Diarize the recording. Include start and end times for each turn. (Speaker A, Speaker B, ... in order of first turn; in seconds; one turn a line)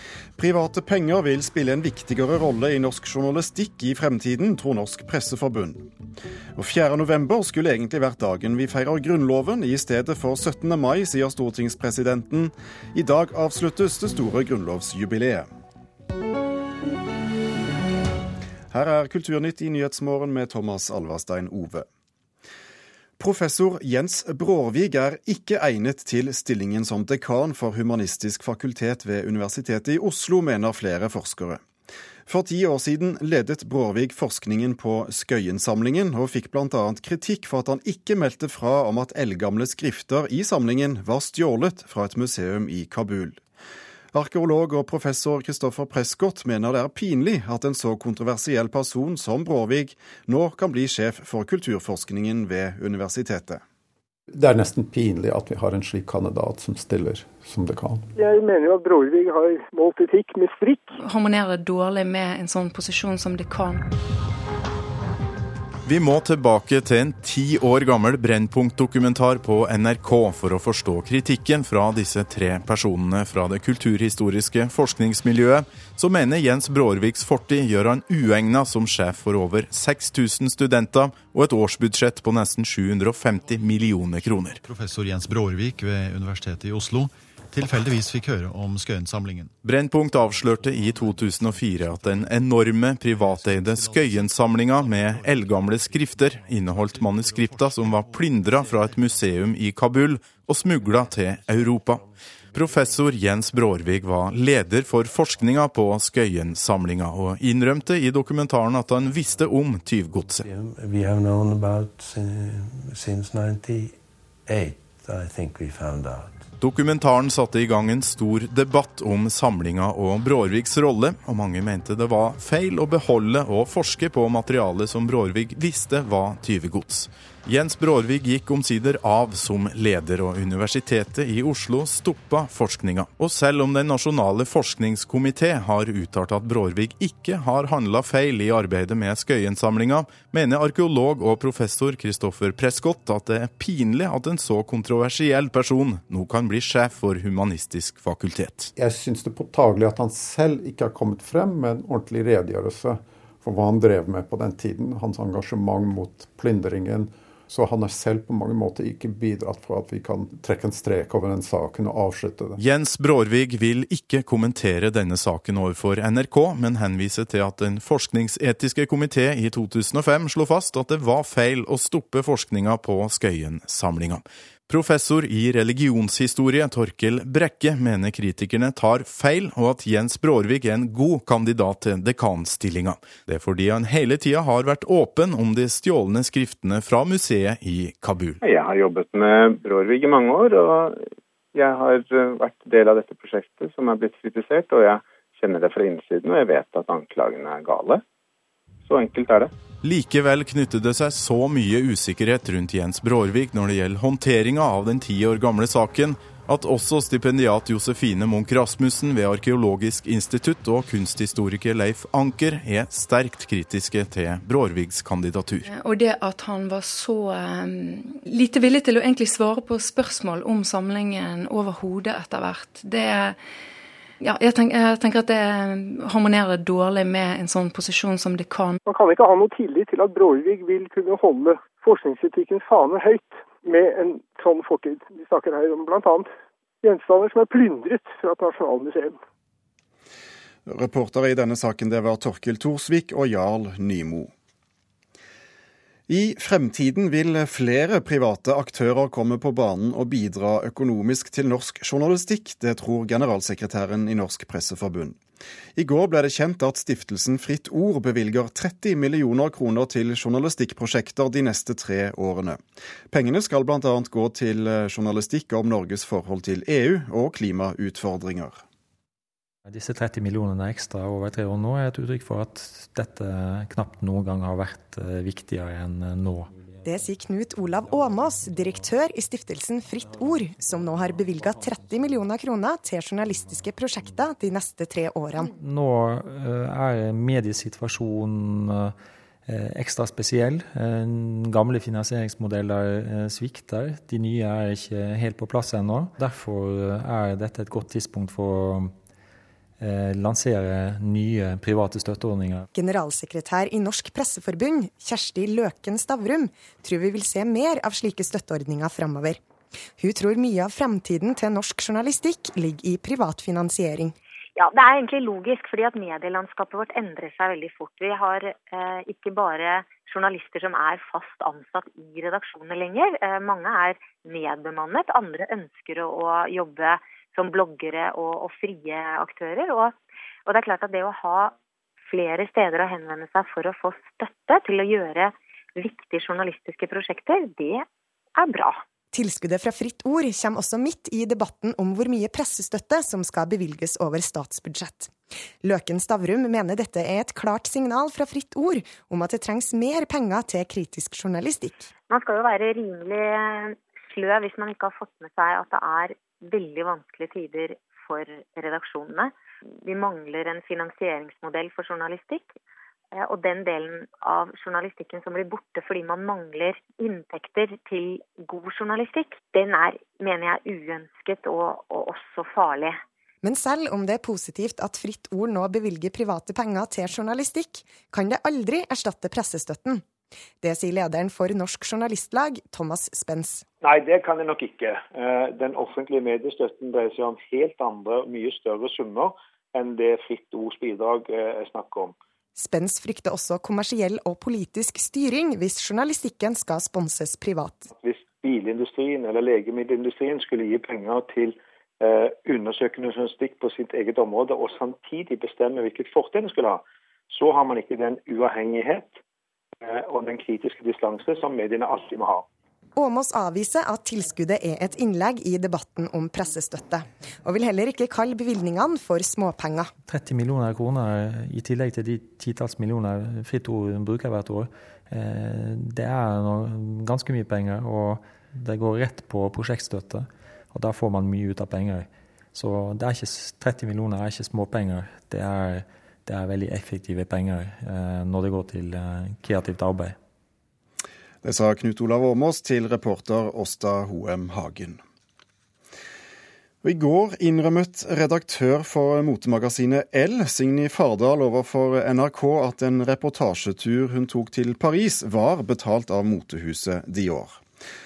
Speaker A: 0.4-5.9
Speaker A: 6.5-15.5
Speaker A: 18.7-21.9
Speaker A: 23.2-31.6
Speaker A: 32.3-43.4
Speaker A: 44.1-53.6
Speaker B: 54.3-58.1
Speaker C: 58.1-61.0
Speaker D: 61.0-63.9
Speaker E: 65.8-84.6
Speaker F: 83.5-89.5
Speaker E: 89.6-110.5
Speaker F: 90.2-99.6
Speaker F: 100.6-103.0
Speaker G: 110.3-116.5
Speaker E: 116.6-148.7
Speaker B: 148.8-162.6
Speaker E: 162.6-188.4
Speaker H: 188.4-198.0
Speaker H: 198.8-199.5
Speaker E: 199.8-215.7
Speaker D: 215.7-223.4
Speaker D: 224.2-228.8
Speaker C: 228.8-236.3
Speaker C: 236.8-239.2
Speaker A: 240.7-244.3
Speaker A: 246.1-255.2
Speaker A: 255.8-268.6
Speaker I: 269.7-276.5
Speaker J: 276.8-285.5
Speaker I: 285.5-288.9
Speaker I: 289.4-298.9
Speaker I: 299.8-302.7
Speaker J: 302.7-309.4
Speaker J: 310.0-314.1
Speaker K: 314.6-329.9
Speaker K: 330.4-331.5
Speaker K: 332.1-338.8
Speaker J: 339.1-351.9
Speaker K: 352.1-362.5
Speaker K: 363.1-373.0
Speaker J: 373.4-380.0
Speaker J: 380.6-383.6
Speaker L: 383.8-392.1
Speaker J: 392.6-397.9
Speaker L: 397.9-409.2
Speaker L: 409.8-412.4
Speaker J: 412.9-419.9
Speaker I: 420.1-440.1
Speaker A: 441.4-445.0
Speaker A: 446.8-457.6